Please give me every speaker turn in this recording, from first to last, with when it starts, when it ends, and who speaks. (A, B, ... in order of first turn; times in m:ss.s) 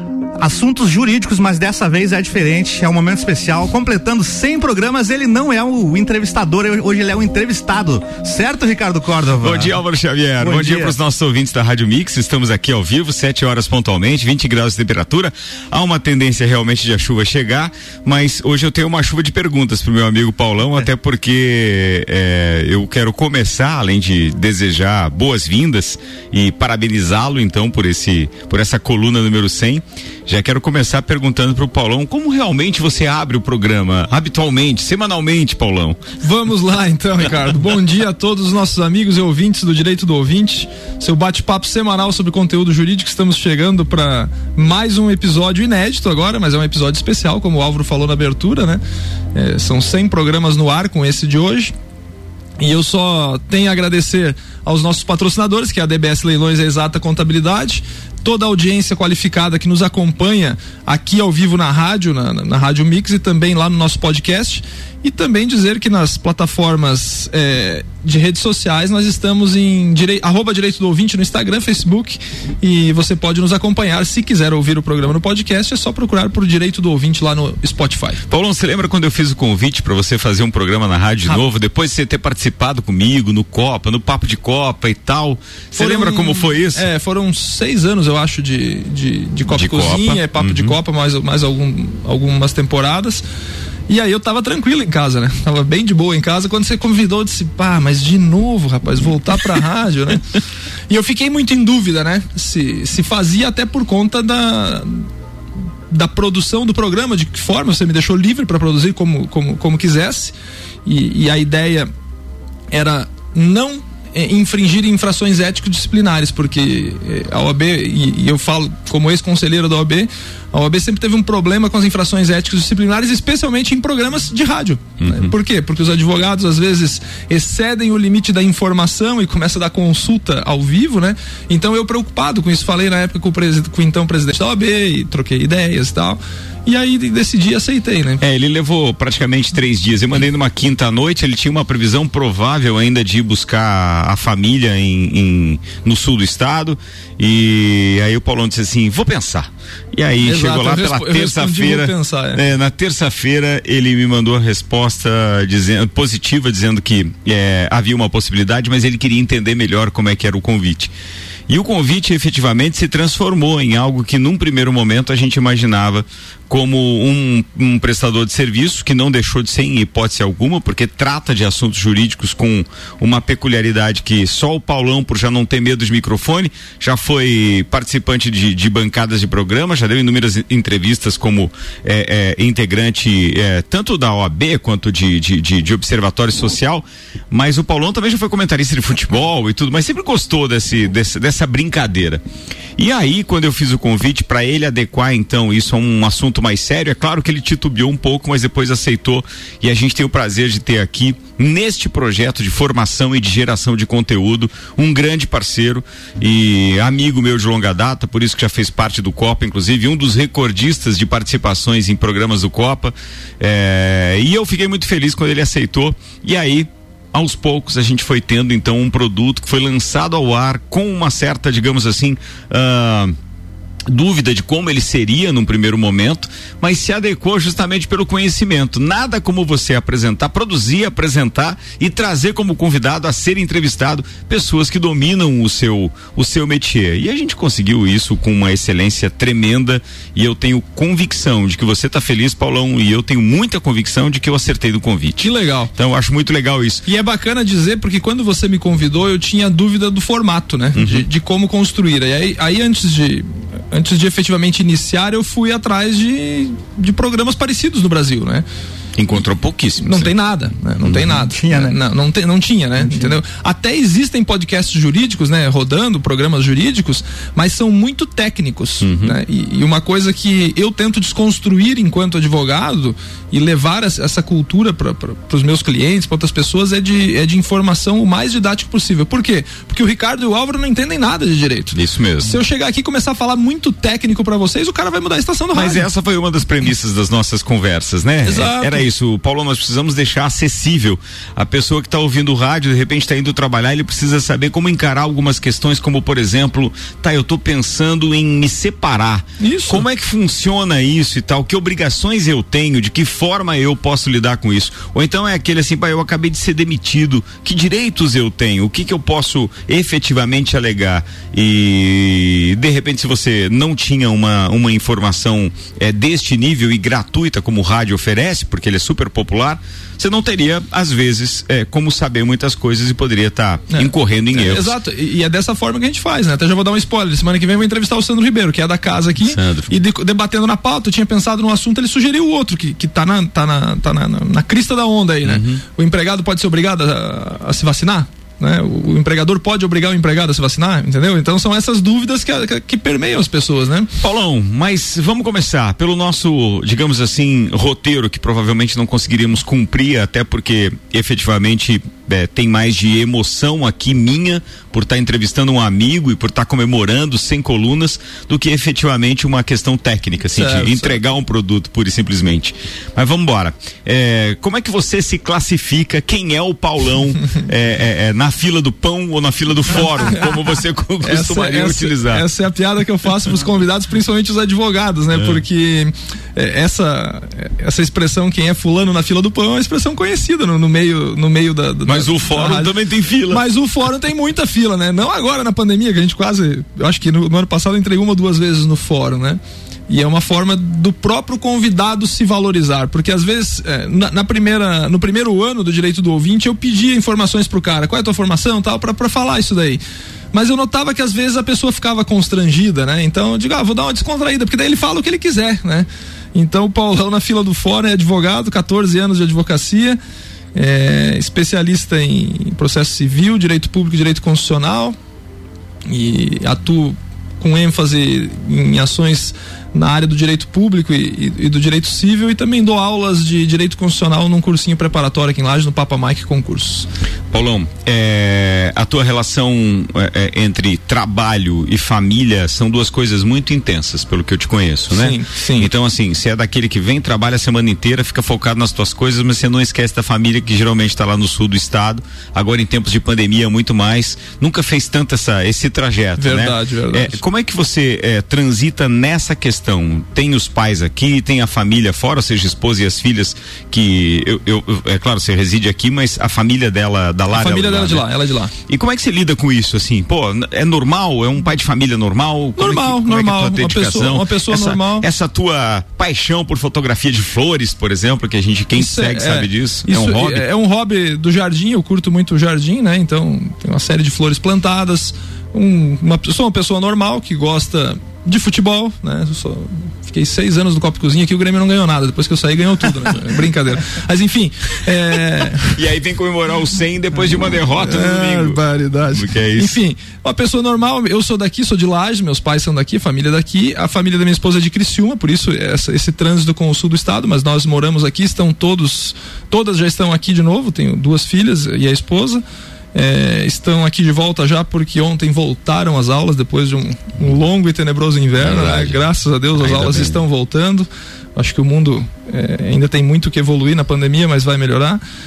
0:00.4-0:09.7 A
0:09.4-0:36.0 B
0:10.4-0:11.0 A
0:36.2-0:48.8 C
0:49.3-0:51.7 C
0:52.6-1:18.2 C
1:18.3-1:26.9 B
1:25.8-1:33.2 C
1:29.5-1:30.8 B
1:33.9-1:40.2 C
1:40.9-1:45.1 C
1:45.9-1:50.3 C
1:50.9-1:51.9 C
1:52.7-2:18.2 C
2:05.0-2:05.3 B
2:18.2-2:40.9 B
2:30.2-2:32.4 C
2:41.5-3:12.2 B
3:12.8-3:43.1 B
3:43.9-4:06.8 B
4:05.2-4:05.7 C
4:06.8-4:18.4 C
4:10.7-4:11.1 B
4:19.0-4:20.1 B
4:19.8-4:45.9 C
4:20.8-4:21.2 B
4:21.3-4:21.8 A
4:22.8-4:23.1 A
4:28.8-4:29.2 B
4:41.7-4:42.4 B
4:45.5-5:24.8 B
4:48.2-4:48.9 C
4:59.4-4:59.8 C
5:23.7-5:43.9 C
5:29.2-5:29.8 B
5:35.2-5:35.6 B
5:44.0-6:12.2 B
6:00.4-6:01.0 C
6:11.0-6:22.8 C
6:15.1-6:15.4 B
6:21.9-6:23.4 B
6:23.3-6:39.8 C
6:40.3-6:50.0 C
6:50.6-6:55.0 C
6:55.8-7:06.9 C
7:07.3-7:38.1 B
7:14.9-7:15.7 C
7:26.2-7:27.2 C
7:37.3-7:38.5 C
7:38.7-7:50.4 B
7:42.6-7:45.1 C
7:48.8-8:05.7 C
8:05.6-8:09.8 B
8:07.8-8:22.4 C
8:22.9-8:35.0 C
8:28.4-8:29.0 B
8:29.6-8:30.2 B